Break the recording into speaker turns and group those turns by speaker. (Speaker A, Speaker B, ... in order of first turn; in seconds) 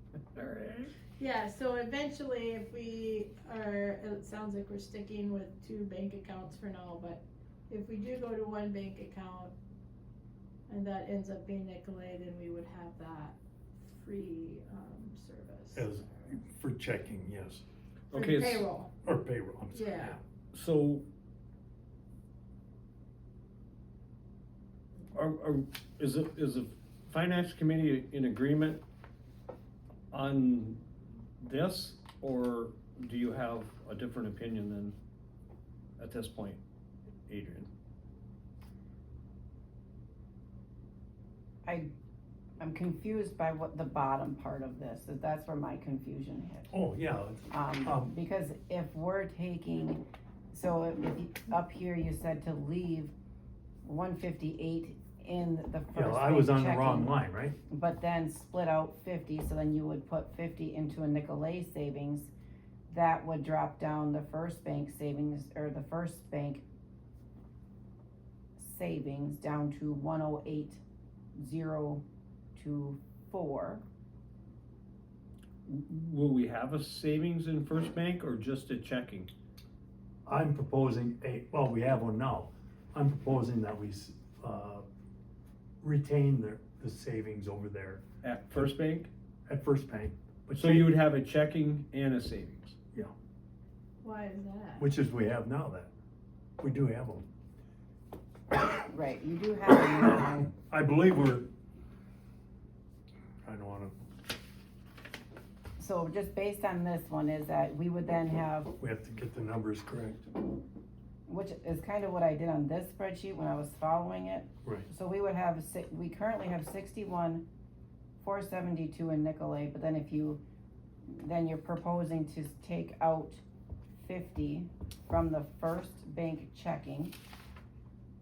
Speaker A: 0.3-0.9, 18.1-18.6, 20.5-21.0, 25.1-28.8, 30.1-30.8, 31.4-35.0, 36.0-36.6, 37.2-37.7, 75.7-79.3, 88.2-89.1, 90.5-92.7
Speaker B: 1.2-9.5, 10.7-16.3, 18.1-18.9, 19.7-20.2, 94.0-94.9
Speaker C: 15.7-17.6, 19.0-20.2, 46.7-48.1, 55.9-57.6, 80.2-84.8, 85.8-88.7, 89.5-90.9, 94.8-95.9, 96.6-97.2, 100.7-101.5, 103.4-103.9, 108.8-110.3
Speaker D: 41.6-41.9, 42.6-46.8, 47.5-53.1, 53.8-62.3, 62.9-66.6, 68.6-70.8, 71.3-72.0, 72.5-73.8, 98.8-100.5, 105.8-108.7, 111.3-117.5, 118.2-120.4, 121.0-123.4, 124.0-127.1